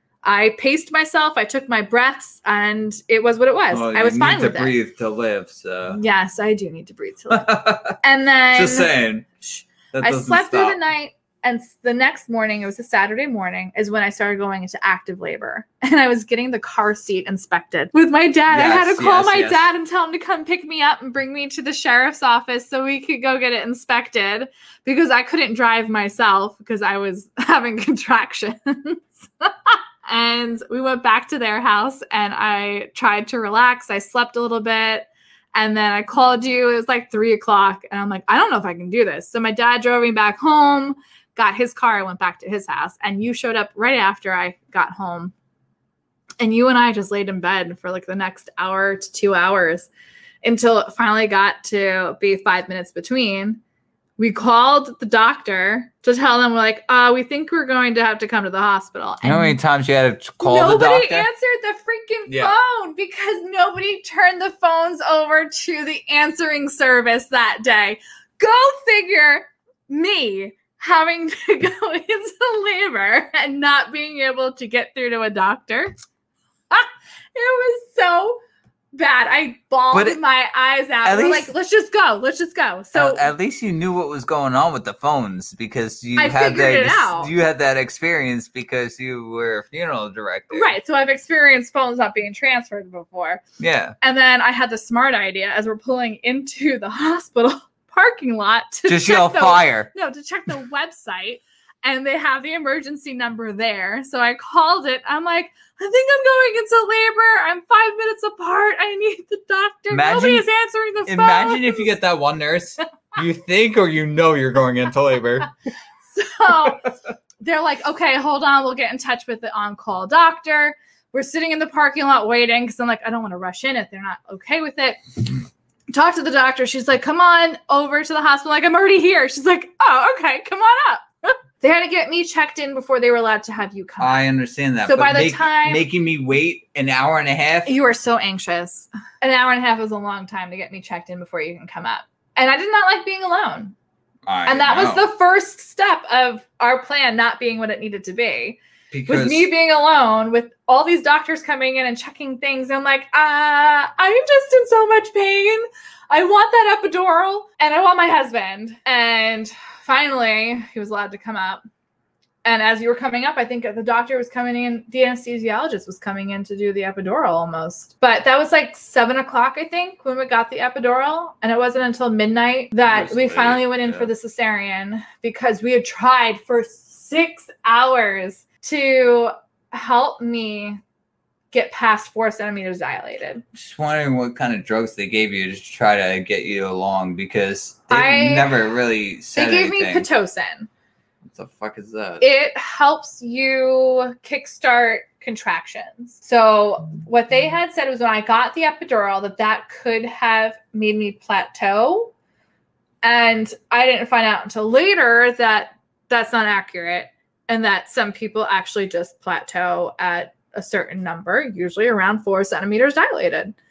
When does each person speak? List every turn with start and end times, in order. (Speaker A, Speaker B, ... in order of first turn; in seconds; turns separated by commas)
Speaker A: 0.2-4.7, Speaker B: 3.7-6.0, Speaker A: 5.9-45.3, Speaker B: 7.3-8.0, Speaker B: 8.5-9.3, Speaker B: 9.9-10.8, Speaker B: 18.5-19.7, Speaker A: 46.4-49.9, Speaker A: 50.4-53.6, Speaker A: 54.2-59.6, Speaker B: 59.2-61.3, Speaker A: 60.4-75.9, Speaker B: 62.3-62.5, Speaker A: 76.7-78.4, Speaker A: 78.9-83.2, Speaker B: 79.9-80.2, Speaker B: 81.0-81.5, Speaker B: 82.9-90.7, Speaker A: 86.2-87.3, Speaker A: 90.5-93.4, Speaker B: 93.6-94.0, Speaker A: 94.0-111.9, Speaker B: 98.9-99.9, Speaker B: 109.9-110.5, Speaker B: 111.0-115.5, Speaker A: 116.1-125.4, Speaker A: 125.9-134.2, Speaker B: 134.0-137.7, Speaker A: 134.9-135.8, Speaker A: 137.7-143.7, Speaker B: 144.2-145.1, Speaker A: 144.4-161.6, Speaker B: 148.9-149.5, Speaker A: 162.4-180.8, Speaker B: 172.9-174.1, Speaker A: 181.5-183.4, Speaker B: 183.6-190.1, Speaker A: 187.9-188.5, Speaker A: 189.4-190.7, Speaker B: 191.3-192.2, Speaker A: 192.2-202.1, Speaker A: 203.0-213.6